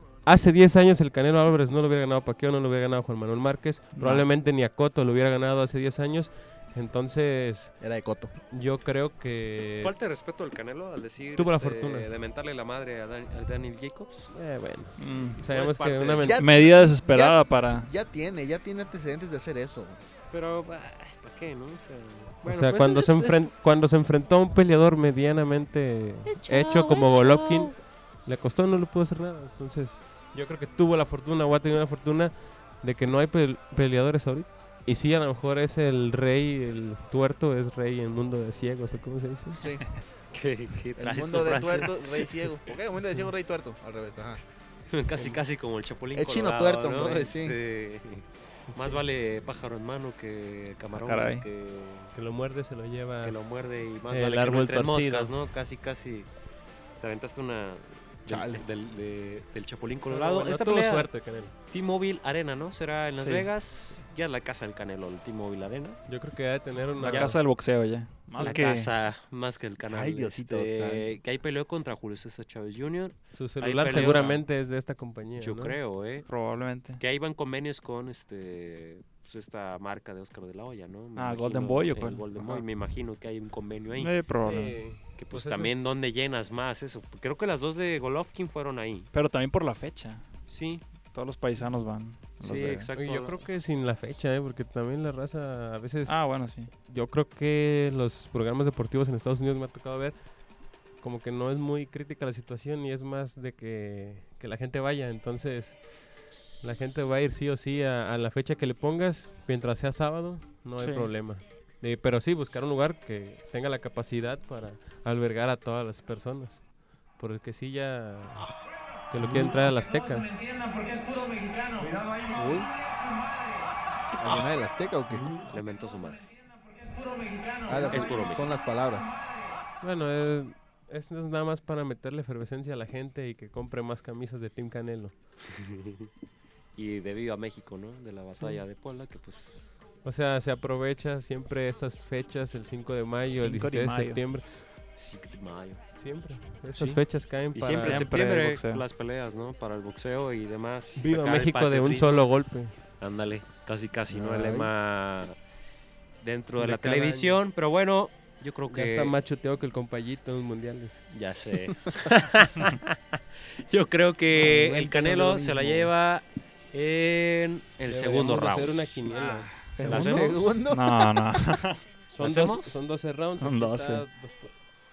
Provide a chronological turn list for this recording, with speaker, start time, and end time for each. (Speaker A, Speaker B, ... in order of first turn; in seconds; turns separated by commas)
Speaker A: 0.2-7.8, Speaker B: 4.0-4.3, Speaker C: 7.8-8.3, Speaker A: 8.5-9.9, Speaker D: 9.8-14.3, Speaker A: 11.4-12.1, Speaker A: 14.3-16.4, Speaker B: 15.0-15.4, Speaker D: 15.5-16.4, Speaker C: 16.2-20.0, Speaker B: 16.4-17.9, Speaker D: 20.3-23.5, Speaker A: 22.5-39.6, Speaker D: 26.4-27.7, Speaker C: 39.6-39.9, Speaker D: 40.3-42.3, Speaker C: 41.0-44.4, Speaker D: 44.9-52.1, Speaker C: 46.1-47.6, Speaker B: 50.9-51.5, Speaker A: 52.1-53.4, Speaker D: 53.2-56.3, Speaker A: 54.1-55.3, Speaker D: 57.0-61.1, Speaker C: 58.3-58.6, Speaker A: 60.1-61.5, Speaker D: 61.7-66.0, Speaker A: 66.1-67.4, Speaker B: 67.0-68.9, Speaker D: 67.0-67.4, Speaker C: 68.3-68.6, Speaker D: 68.4-74.4, Speaker C: 69.9-71.2, Speaker A: 73.3-75.8, Speaker D: 75.4-76.3, Speaker B: 76.3-77.0, Speaker D: 77.0-89.1, Speaker B: 81.2-82.3, Speaker C: 82.4-82.6, Speaker B: 83.9-85.0, Speaker A: 84.4-85.9, Speaker B: 89.1-90.2, Speaker D: 90.5-90.8, Speaker B: 91.0-92.9, Speaker D: 92.4-93.5, Speaker A: 93.0-100.2, Speaker B: 96.1-96.7, Speaker A: 101.0-105.9, Speaker A: 106.6-120.3, Speaker B: 110.8-111.2, Speaker C: 119.2-119.5, Speaker C: 122.1-122.7, Speaker C: 124.2-125.3, Speaker D: 125.4-126.3, Speaker C: 127.6-129.2, Speaker D: 127.8-128.6, Speaker A: 129.8-135.1, Speaker D: 135.5-136.1, Speaker D: 136.8-139.7, Speaker A: 140.0-144.6, Speaker B: 143.3-144.2, Speaker D: 145.0-145.8, Speaker A: 146.0-148.1, Speaker B: 146.7-147.1, Speaker D: 147.5-152.3, Speaker B: 147.7-148.8, Speaker A: 151.0-152.8, Speaker D: 153.0-155.4, Speaker C: 154.1-154.7, Speaker D: 156.2-159.2, Speaker A: 156.6-157.4, Speaker A: 158.7-161.0, Speaker D: 161.1-170.6, Speaker C: 164.3-165.9, Speaker A: 167.9-169.5, Speaker C: 169.8-171.1, Speaker B: 169.8-171.8, Speaker A: 172.1-174.6, Speaker D: 172.2-172.8, Speaker B: 173.4-174.1